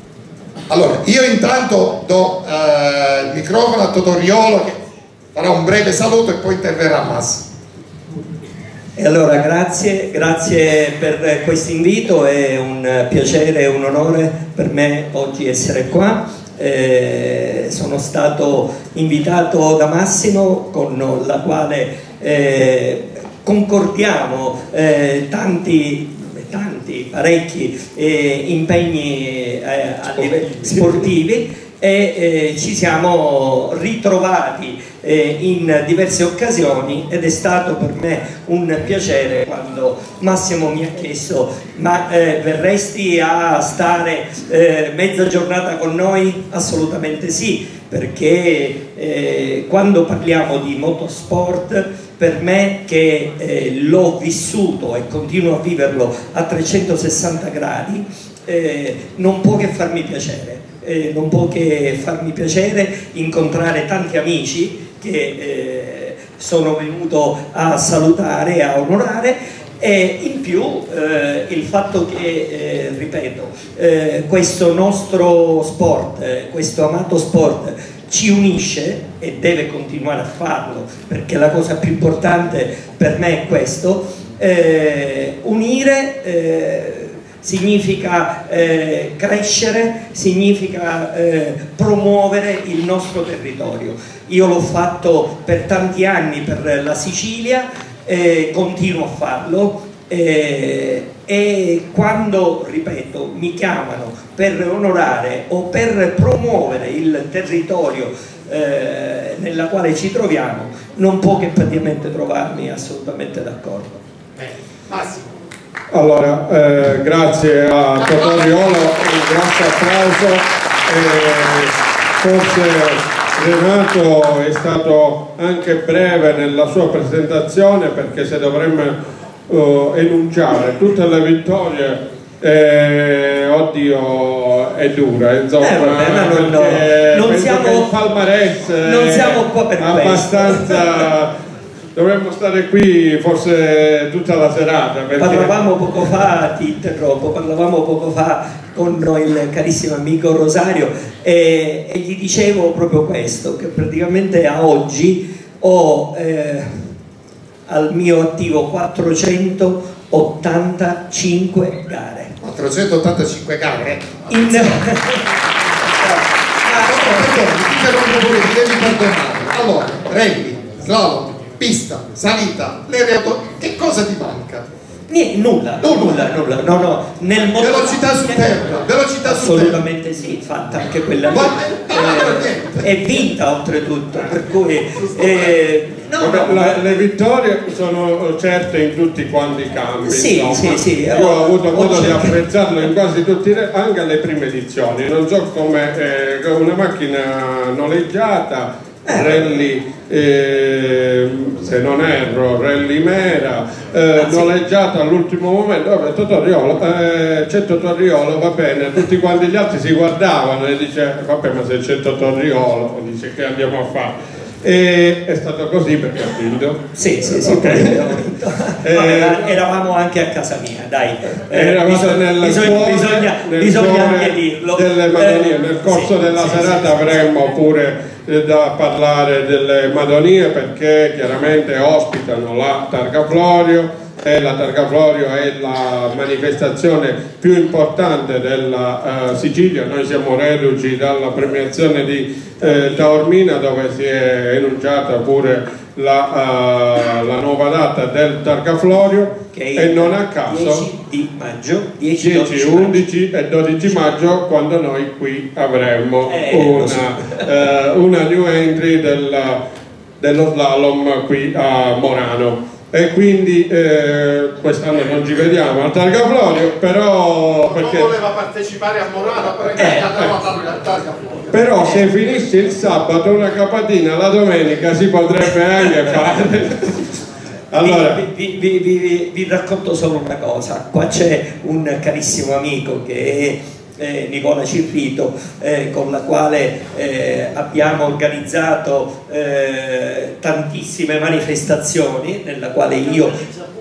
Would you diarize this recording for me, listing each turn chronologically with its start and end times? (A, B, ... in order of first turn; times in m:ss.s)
0:00.7-0:04.8 A
0:05.3-0:07.4 A
0:09.0-1:54.0 B
0:30.2-0:31.1 C
1:54.4-1:55.3 A
1:55.9-2:09.0 C
2:09.5-2:21.3 C
2:15.6-2:17.9 B
2:18.8-2:20.9 B
2:21.9-2:25.6 C
2:25.2-2:36.9 B
2:37.7-2:42.3 B
2:42.4-2:44.8 A
2:44.3-2:45.2 B
2:46.6-2:47.2 B
2:46.7-2:54.6 A
2:55.1-3:06.8 B
2:57.6-2:59.8 A
3:01.3-3:02.9 A
3:06.2-3:38.2 C
3:10.0-3:12.4 B
3:19.1-3:19.4 B
3:24.2-3:24.5 B
3:36.9-3:47.1 B
3:38.8-3:39.5 C
3:41.5-4:10.8 C
4:09.5-4:13.0 B
4:12.2-4:19.6 C
4:16.3-4:17.4 B
4:20.2-4:28.2 C
4:29.8-4:30.3 B
4:29.9-4:31.1 A
4:31.5-4:37.0 C
4:37.7-4:38.2 C
4:37.7-4:53.5 B